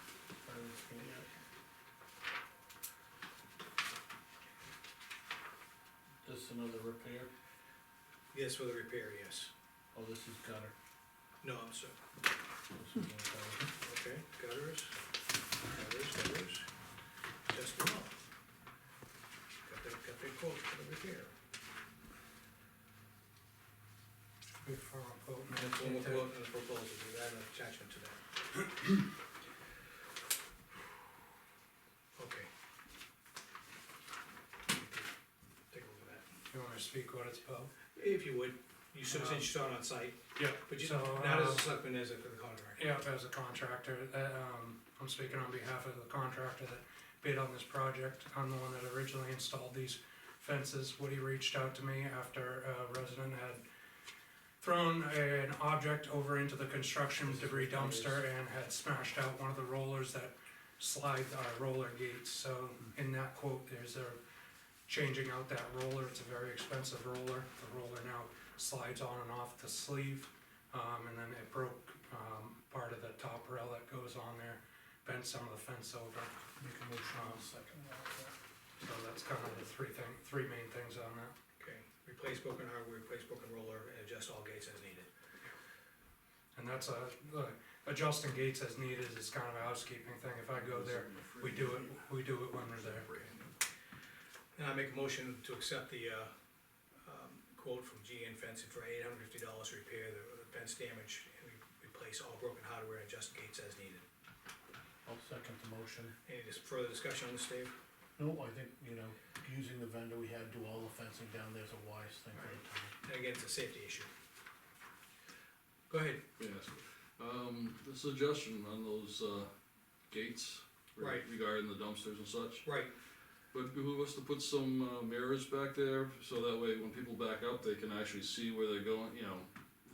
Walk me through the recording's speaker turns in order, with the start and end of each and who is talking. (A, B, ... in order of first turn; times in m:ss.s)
0:00.4-0:01.3 A
0:06.2-0:07.3 A
0:08.3-0:09.5 B
0:09.9-0:10.7 A
0:11.4-0:12.0 B
0:12.7-0:13.7 A
0:13.8-0:15.0 B
0:15.7-0:16.6 B
0:17.5-0:18.1 B
0:19.6-0:21.3 B
0:24.6-0:26.3 C
0:25.5-0:28.2 B
0:32.2-0:32.5 B
0:34.7-0:35.0 B
0:35.7-0:36.2 B
0:36.5-0:37.7 C
0:38.0-0:42.8 B
0:39.1-0:39.5 C
0:40.3-0:41.7 C
0:42.8-0:53.6 C
0:54.6-1:04.2 C
0:57.2-0:58.2 A
1:04.9-1:16.3 C
1:16.6-1:18.3 A
1:17.2-1:17.4 C
1:18.8-1:21.3 C
1:21.6-1:25.1 B
1:26.5-1:33.1 C
1:30.5-1:32.1 D
1:32.8-1:33.4 D
1:34.6-1:36.3 B
1:37.0-1:44.0 B
1:45.0-1:46.1 A
1:46.2-1:47.7 B
1:48.2-1:53.0 A
1:52.4-1:54.1 B
1:55.9-1:56.2 B
1:56.4-1:59.5 D
2:00.1-2:02.7 D
2:01.0-2:01.2 B
2:02.6-2:02.9 B
2:03.5-2:09.5 D